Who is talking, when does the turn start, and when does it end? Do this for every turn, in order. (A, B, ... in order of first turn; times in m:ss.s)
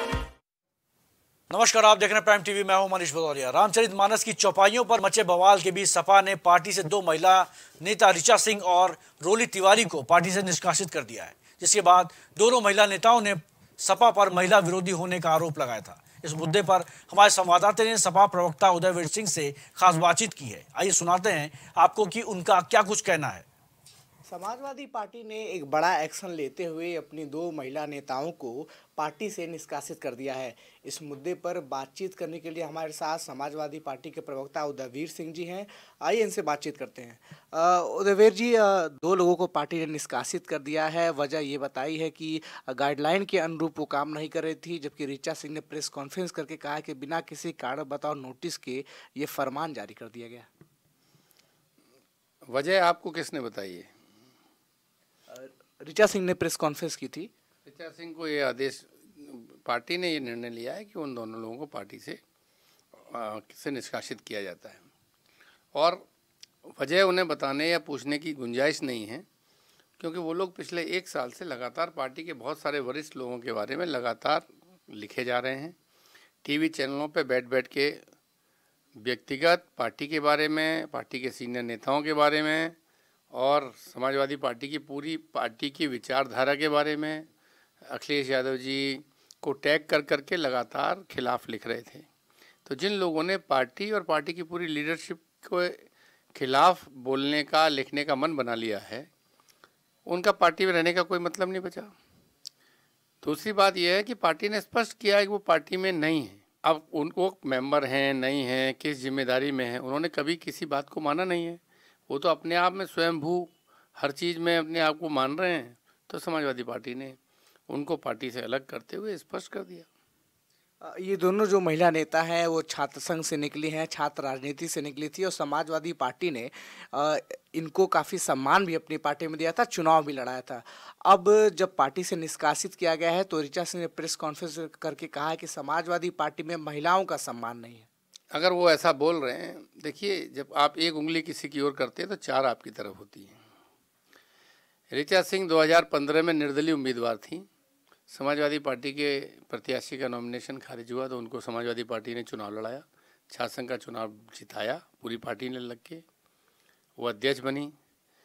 0:01.5-0:23.4 A
0:24.3-0:50.5 B
0:52.5-0:53.9 C
0:55.3-0:57.3 B
0:57.6-1:02.2 C
1:03.0-1:04.9 C
1:05.7-1:06.0 C
1:06.7-1:09.3 C
1:10.0-1:15.8 C
1:16.4-1:18.0 C
1:19.0-1:22.8 C
1:23.3-1:27.3 C
1:27.9-1:32.1 C
1:32.7-1:39.1 C
1:40.1-1:41.9 C
1:43.2-1:57.2 C
1:57.7-1:59.9 C
2:00.8-2:17.9 B
2:18.3-2:23.4 C
2:24.9-2:27.5 C
2:28.1-2:36.0 C
2:37.0-2:37.7 C